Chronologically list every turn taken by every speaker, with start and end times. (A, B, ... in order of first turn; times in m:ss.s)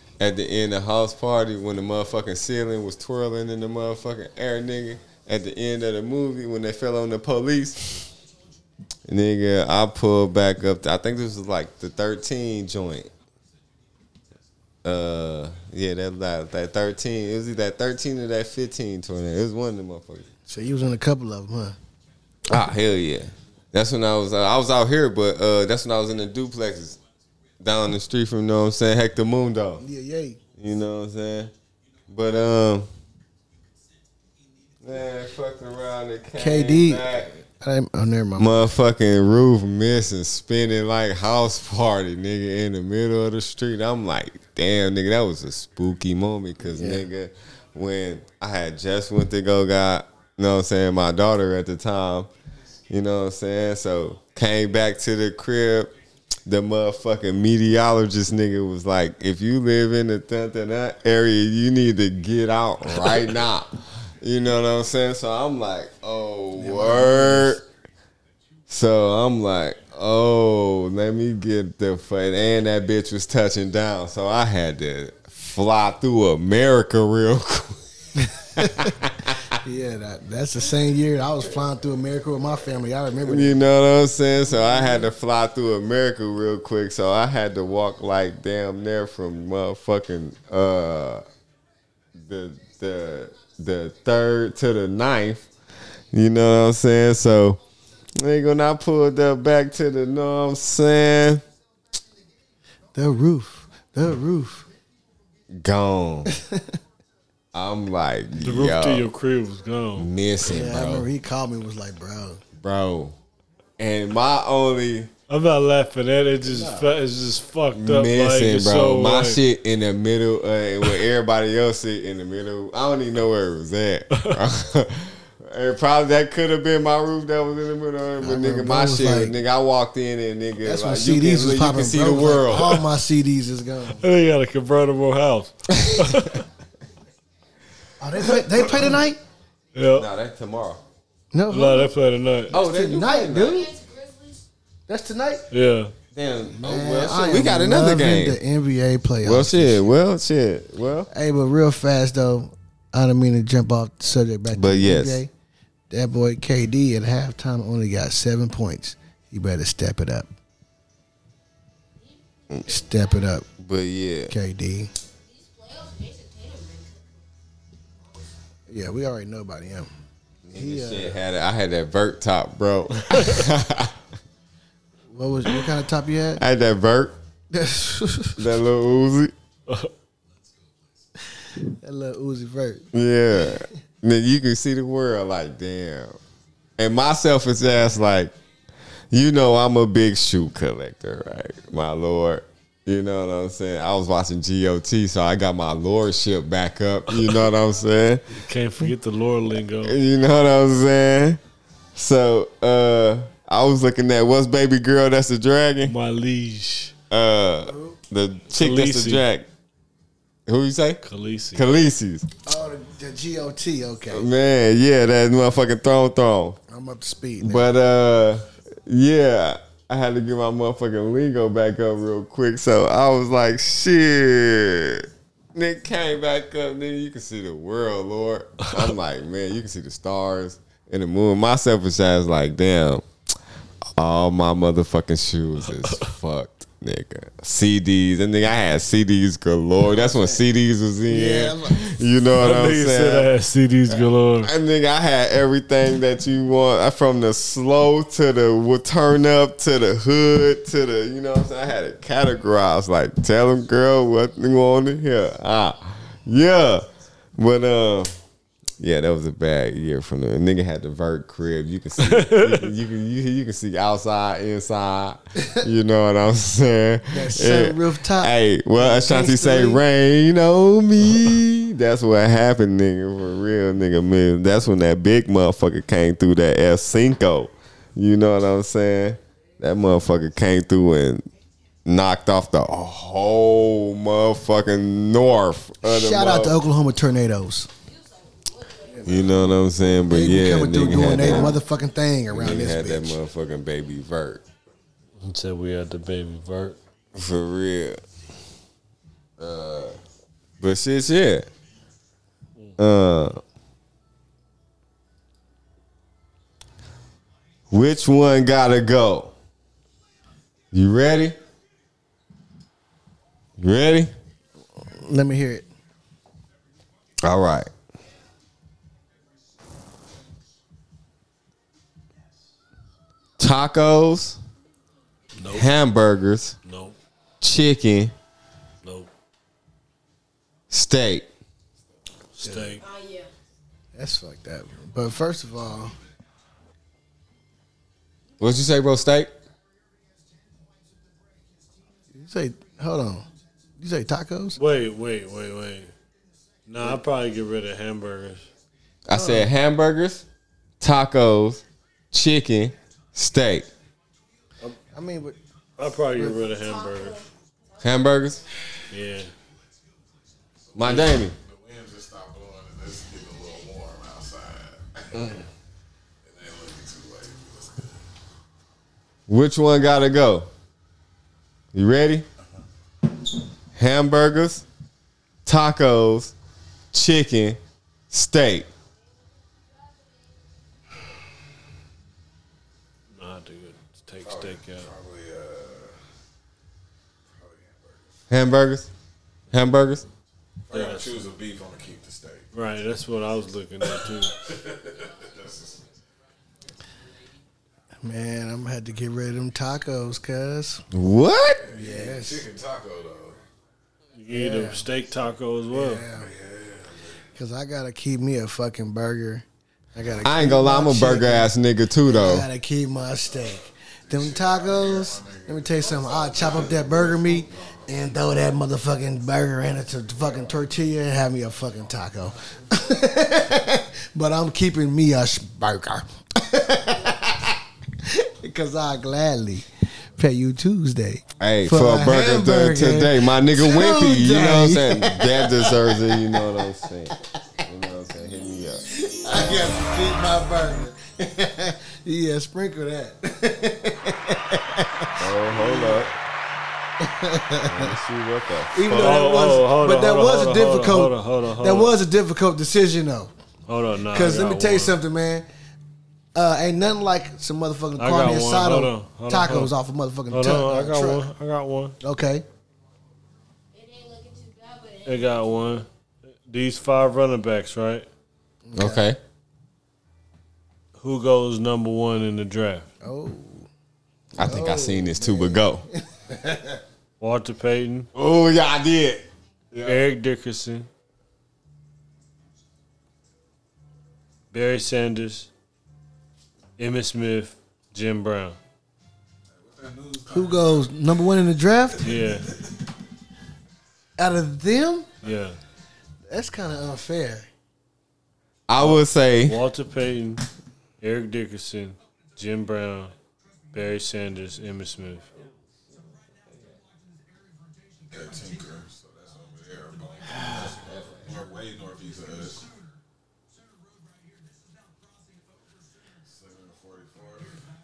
0:00.2-0:08.0 A
0:09.1-0:13.1 A
0:14.8-0:20.3 A
0:20.5-0:21.8 B
0:22.5-0:27.0 A
0:27.6-0:29.8 A
0:29.8-0:30.4 B
0:30.6-0:31.5 A
0:32.1-0:32.9 A
0:34.8-0:37.4 A
0:36.4-0:37.1 B
0:37.6-0:38.6 B
0:38.4-0:52.3 A
0:46.6-0:47.1 B
0:52.9-0:55.9 A
0:56.4-1:07.6 A
1:06.6-1:07.6 B
1:08.7-1:17.8 A
1:18.6-1:18.9 B
1:18.6-1:19.4 A
1:19.6-1:23.6 B
1:23.2-1:31.2 A
1:32.2-1:35.5 A
1:36.1-1:37.6 A
1:38.2-1:41.4 A
1:42.9-1:44.7 B
1:45.5-1:46.3 A
1:46.3-1:46.6 B
1:47.5-1:49.1 A
1:48.4-1:50.1 C
1:50.0-1:51.1 A
1:50.4-1:52.4 B
1:52.6-1:53.1 A
1:53.8-1:55.1 A
1:55.3-1:59.4 C
1:56.4-1:57.0 B
1:57.7-2:12.8 A
2:08.2-2:09.4 B
2:10.6-2:14.0 B
2:14.0-2:16.4 C
2:18.0-2:19.2 B
2:18.3-2:19.0 C
2:19.7-2:20.1 C
2:19.9-2:20.8 A
2:21.3-2:21.9 B
2:21.5-2:22.5 C
2:22.5-2:23.6 A
2:22.5-2:23.7 B
2:23.0-2:24.4 D
2:24.9-2:25.4 B
2:25.5-2:25.9 C
2:26.1-2:28.4 A
2:26.4-2:29.9 B
2:29.2-2:31.1 A
2:31.1-2:35.3 B
2:34.5-2:35.2 A
2:35.9-2:40.3 B
2:42.0-2:43.4 D
2:42.7-2:43.4 B
2:43.6-2:44.3 A
2:44.3-2:44.9 B
2:45.2-2:47.3 D
2:48.7-2:49.9 B
2:50.4-2:53.9 A
2:50.5-2:51.2 B
2:55.1-2:56.4 B
2:56.4-2:57.2 A
2:57.5-2:58.4 B
2:58.4-2:59.3 A
3:01.3-3:02.9 B
3:02.9-3:06.2 A
3:06.8-3:08.3 A
3:09.1-3:18.3 A
3:18.3-3:20.0 C
3:19.8-3:21.4 A
3:22.0-3:25.9 A
3:25.9-3:26.9 C
3:27.1-3:29.4 A
3:27.6-3:28.0 B
3:28.5-3:29.2 C
3:30.5-3:31.0 A
3:31.0-3:31.6 C
3:31.5-3:32.3 A
3:32.4-3:34.3 B
3:34.1-3:36.6 A
3:36.7-3:37.6 B
3:37.4-3:53.0 A
3:54.0-4:03.3 A
3:59.8-4:00.4 B
4:01.1-4:01.8 B
4:02.4-4:04.5 C
4:03.9-4:16.9 A
4:17.4-4:18.1 A
4:18.8-4:41.3 A
4:22.0-4:22.7 C
4:27.1-4:29.8 B
4:41.9-4:46.6 A
4:45.8-4:47.7 B
4:47.8-4:49.5 D
4:48.9-4:49.5 B
4:49.1-4:51.6 A
4:50.1-4:53.2 B
4:52.3-4:54.4 A
4:55.2-4:56.8 C
4:57.2-4:58.0 A
4:59.4-5:00.0 A
5:00.6-5:01.5 A
5:02.8-5:03.4 A
5:07.7-5:09.3 A
5:10.7-5:11.4 A
5:13.6-5:14.1 A
5:14.9-5:15.7 B
5:17.2-5:17.7 A
5:23.4-5:24.4 A
5:25.4-5:25.7 C
5:25.5-5:26.6 A
5:26.6-5:27.0 C
5:27.4-5:28.1 A
5:28.8-5:29.1 C
5:30.7-5:31.3 A
5:32.3-5:32.8 C
5:32.4-5:32.8 B
5:32.8-5:33.3 D
5:33.9-5:35.9 B
5:38.4-5:39.3 A
5:42.1-5:43.3 B
5:43.8-5:44.6 B
5:44.6-5:45.9 C
5:46.7-5:48.4 C
5:49.1-5:50.2 A
5:49.1-5:49.5 B
5:50.8-5:53.7 A
5:54.9-5:55.4 B
5:55.8-5:57.2 C
5:56.4-5:57.9 D
5:57.8-5:58.4 A
5:58.9-5:59.3 C
6:00.7-6:05.4 E
6:00.7-6:01.4 A
6:06.2-6:08.0 E
6:09.3-6:10.5 A
6:11.7-6:12.2 A
6:13.7-6:14.6 A
6:15.4-6:16.3 A
6:16.9-6:17.6 A
6:18.1-6:18.7 A
6:23.1-6:24.9 C
6:24.2-6:26.0 E
6:27.3-6:28.1 E
6:28.3-6:28.9 A
6:29.5-6:30.0 A
6:30.7-6:32.5 E
6:30.7-6:31.3 C
6:32.5-6:34.4 C
6:33.8-6:36.0 E
6:38.0-6:40.8 B
6:40.9-6:41.6 A
6:41.6-6:43.4 E
6:41.7-6:42.4 B
6:44.2-6:46.0 C
6:44.3-6:44.8 B
6:45.7-6:46.3 B
6:46.1-6:47.2 E
6:47.4-6:51.5 B
6:50.2-6:52.5 A
6:52.1-7:16.6 B
6:54.1-6:57.6 E
7:11.4-7:18.8 A
7:18.9-7:26.1 B
7:25.2-7:26.1 A
7:27.0-7:27.9 B
7:27.6-7:29.3 A
7:28.7-7:33.3 B
7:28.9-7:31.9 C
7:33.7-7:35.0 C
7:34.1-7:35.4 B
7:36.4-7:41.3 B
7:38.0-7:39.7 C
7:40.3-7:42.0 C
7:42.0-7:42.4 B
7:43.7-7:45.5 D
7:45.1-7:45.9 C
7:46.4-7:48.1 C
7:48.6-7:49.1 B
7:48.8-7:49.2 A
7:51.0-7:52.9 C
7:53.0-7:53.7 B
7:54.4-7:55.8 A
7:54.4-7:56.8 B
7:57.2-7:58.1 C
7:58.2-8:00.0 A
7:59.8-8:00.9 C
8:04.5-8:05.5 C
8:06.8-8:08.6 C
8:09.5-8:10.9 E
8:10.3-8:12.1 B
8:12.0-8:12.6 E
8:12.0-8:12.5 C
8:14.2-8:15.1 B
8:15.2-8:15.6 C
8:16.3-8:17.5 B
8:18.7-8:19.6 A
8:18.8-8:20.4 C
8:21.0-8:23.1 C
8:23.7-8:25.3 C
8:28.1-8:32.6 E
8:30.5-8:31.3 A
8:36.3-8:37.6 E